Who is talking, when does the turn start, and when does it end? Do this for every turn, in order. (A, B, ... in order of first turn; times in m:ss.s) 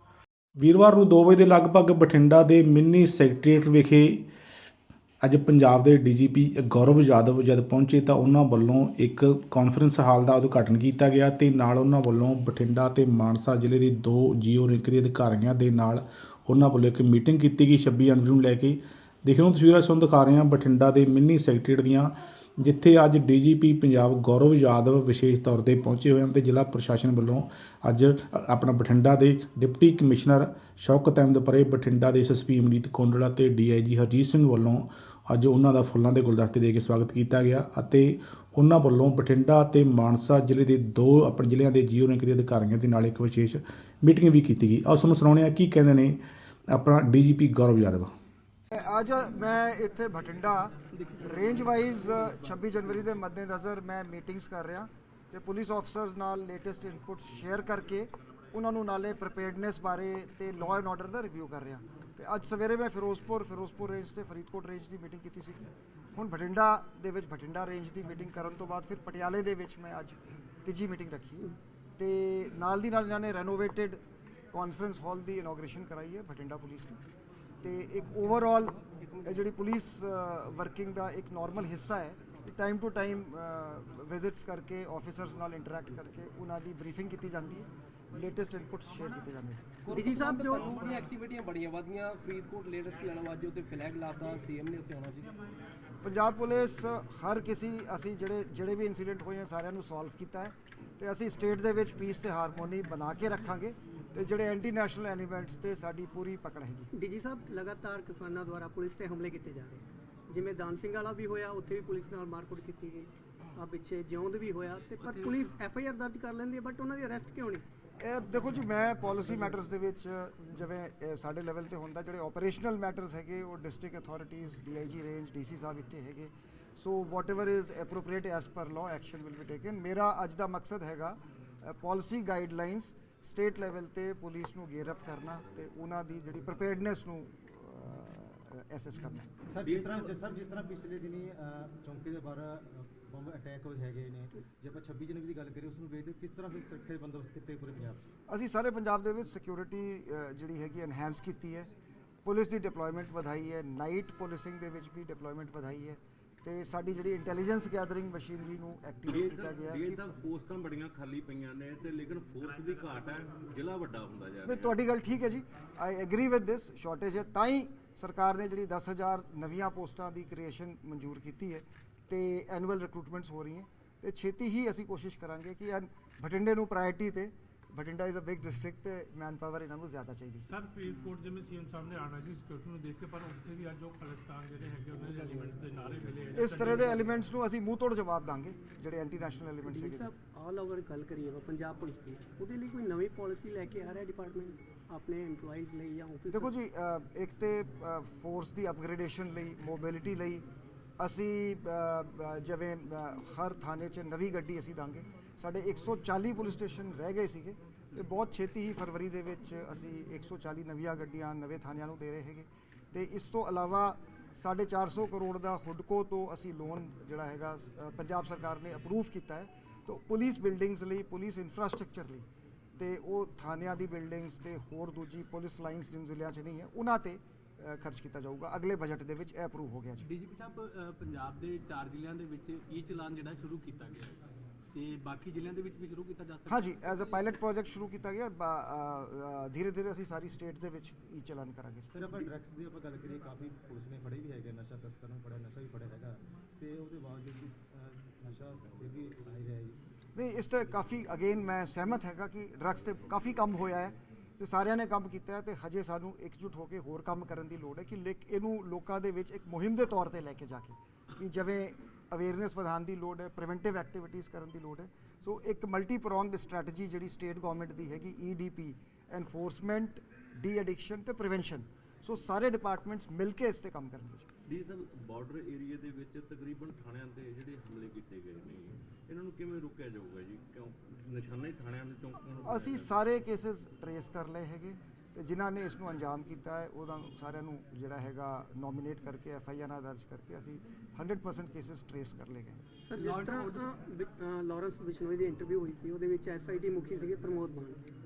0:00.6-0:04.2 A
0:05.2-0:46.2 A
0:46.7-0:48.1 A
0:48.7-1:11.5 B
1:12.0-1:14.0 B
1:14.5-1:17.0 B
1:17.6-1:29.6 B
1:29.9-1:35.3 C
1:29.9-1:30.7 D
1:36.0-1:46.9 B
1:46.9-1:57.6 D
1:58.0-2:19.3 B
2:19.5-2:28.1 E
2:19.6-2:20.1 F
2:28.3-2:31.7 B
2:32.2-2:40.0 B
2:39.1-2:44.8 F
2:44.4-3:00.5 B
3:00.5-3:07.0 G
3:06.3-3:10.1 B
3:09.7-3:16.5 D
3:16.3-3:20.4 B
3:21.0-3:42.2 B
3:42.8-3:50.1 B
3:52.4-3:52.8 H
3:53.6-3:54.1 H
3:54.8-3:56.5 H
3:56.5-4:02.3 B
4:01.9-4:09.8 E
4:10.2-4:34.3 B
4:34.5-4:43.0 F
4:42.4-4:52.6 B
4:52.9-4:57.8 D
4:53.0-4:53.6 G